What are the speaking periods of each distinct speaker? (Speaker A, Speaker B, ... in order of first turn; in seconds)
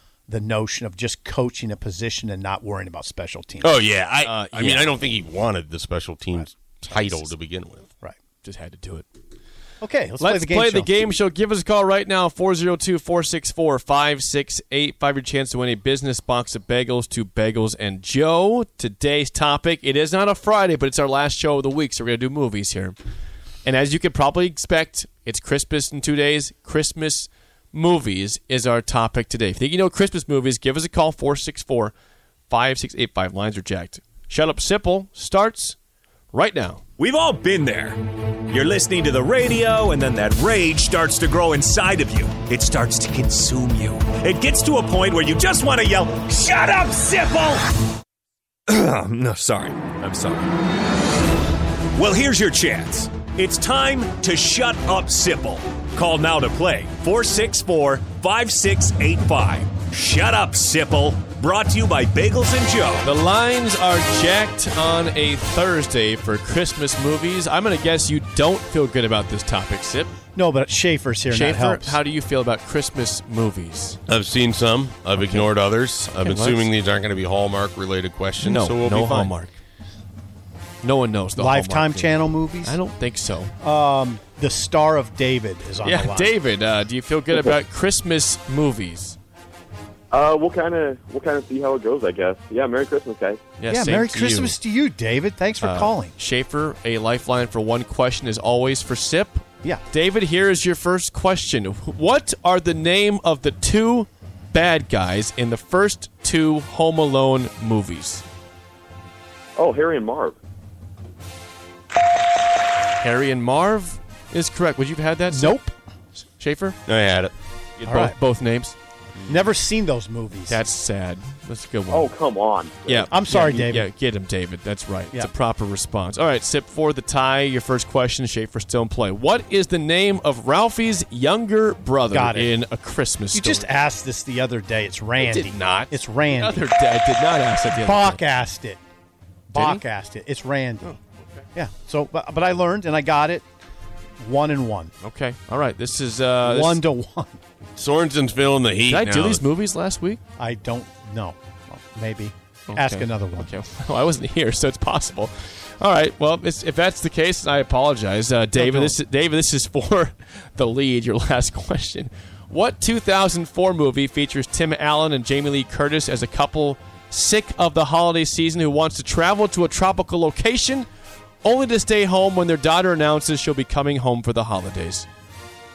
Speaker A: 0.3-3.8, 6.3-7.3, 9.8-10.9, 70.3-72.0, 81.4-82.8, 83.6-86.3, 93.7-96.1, 115.3-115.7, 117.8-118.2, 119.3-120.6, 123.0-123.9, 132.1-132.5, 133.3-136.6, 137.8-138.8, 139.5-141.0, 141.5-143.5, 144.2-144.9, 146.4-147.4, 150.4-153.5, 158.6-158.9
Speaker B: 3.6-7.9, 74.1-79.3, 116.8-117.3, 147.8-149.4
Speaker C: 4.2-5.0, 8.4-9.1, 10.2-22.9, 23.6-31.9, 32.5-35.8, 36.3-36.8, 63.0-70.1, 71.3-74.0, 75.2-75.5, 76.1-76.7, 78.4-79.5, 80.8-83.5, 85.8-89.2, 93.6-94.6, 95.6-108.2, 113.0-115.6, 116.2-116.8, 117.8-118.8, 120.5-122.1, 122.8-133.7, 135.2-138.2, 139.5-139.8, 140.8-141.5, 145.0-146.8, 148.9-150.2, 152.7-170.9, 171.4-175.1
Speaker D: 37.0-47.9, 48.7-50.5, 51.9-63.0
Speaker E: 90.1-93.4, 109.6-110.4, 121.9-123.0